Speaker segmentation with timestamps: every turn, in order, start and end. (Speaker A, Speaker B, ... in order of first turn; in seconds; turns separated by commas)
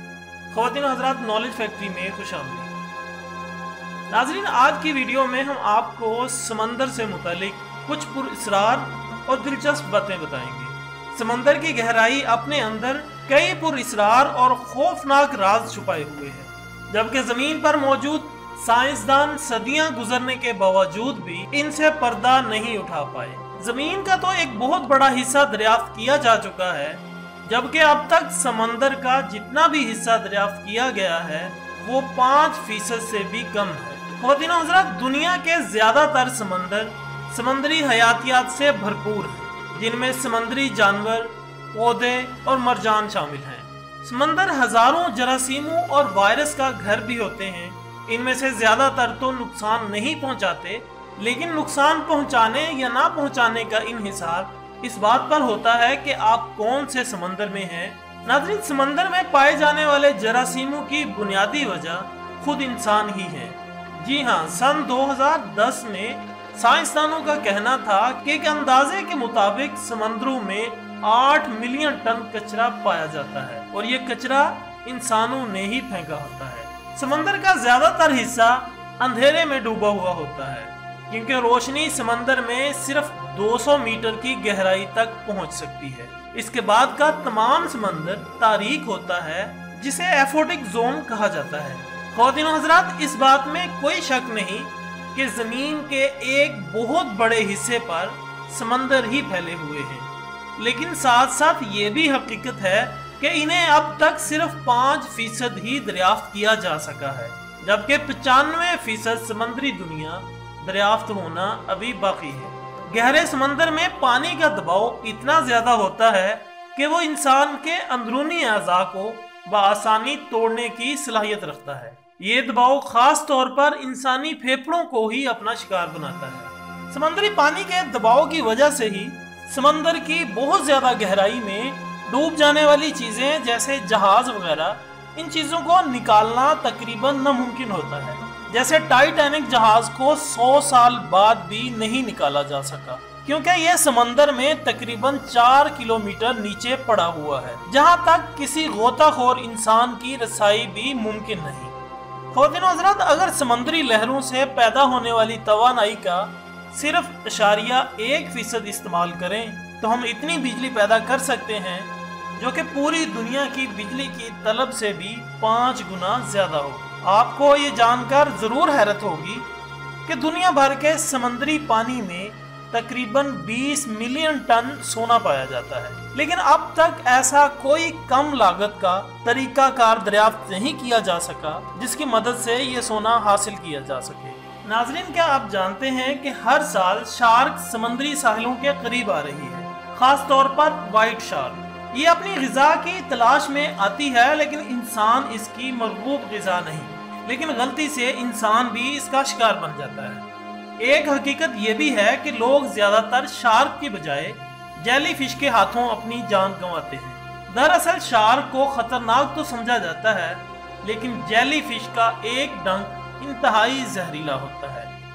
Speaker A: 0.5-2.7, Speaker A: 4.1-151.7, Speaker A: 152.3-169.5, Speaker A: 170.1-200.2, Speaker A: 200.8-214.9